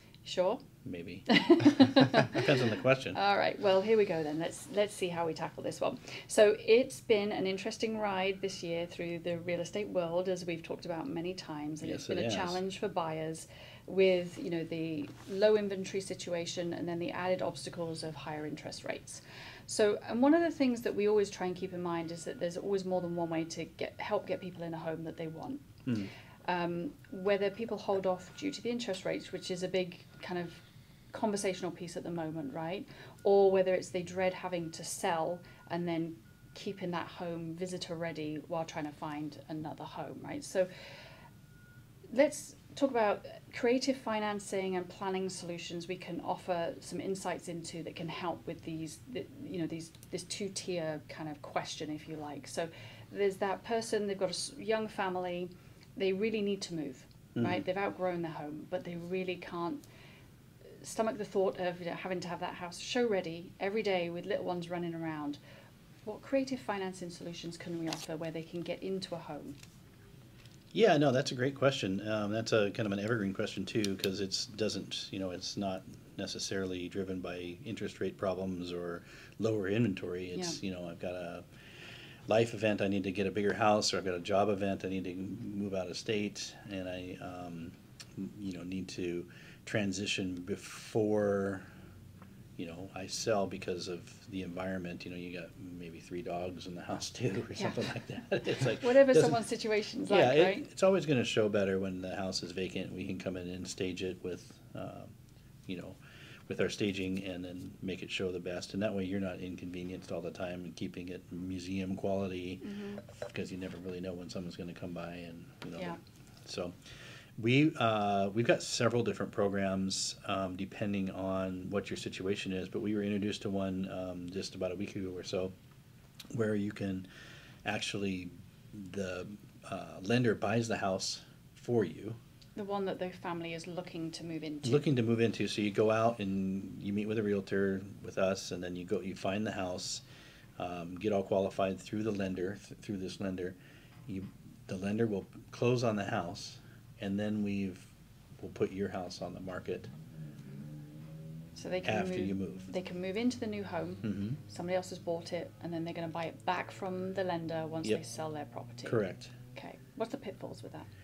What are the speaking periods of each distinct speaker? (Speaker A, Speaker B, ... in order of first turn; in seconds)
Speaker A: 0.2-0.6, 1.3-2.5, 3.1-25.7, 26.4-40.7, 42.1-59.8, 60.8-65.4, 66.0-69.6, 97.5-97.8, 98.8-100.7, 112.6-113.0, 132.6-134.9, 151.6-159.0, 159.5-160.9
Speaker B: 0.8-1.2, 1.9-3.2, 11.8-12.6, 57.3-57.6, 70.7-81.4, 82.3-91.7, 92.6-99.4, 100.0-105.1, 105.7-106.0, 106.5-116.7, 117.4-125.5, 126.3-127.0, 127.6-132.2, 134.6-140.0, 140.6-143.6, 144.1-147.9, 148.4-149.9, 151.8-152.7, 154.0-154.4, 158.8-159.3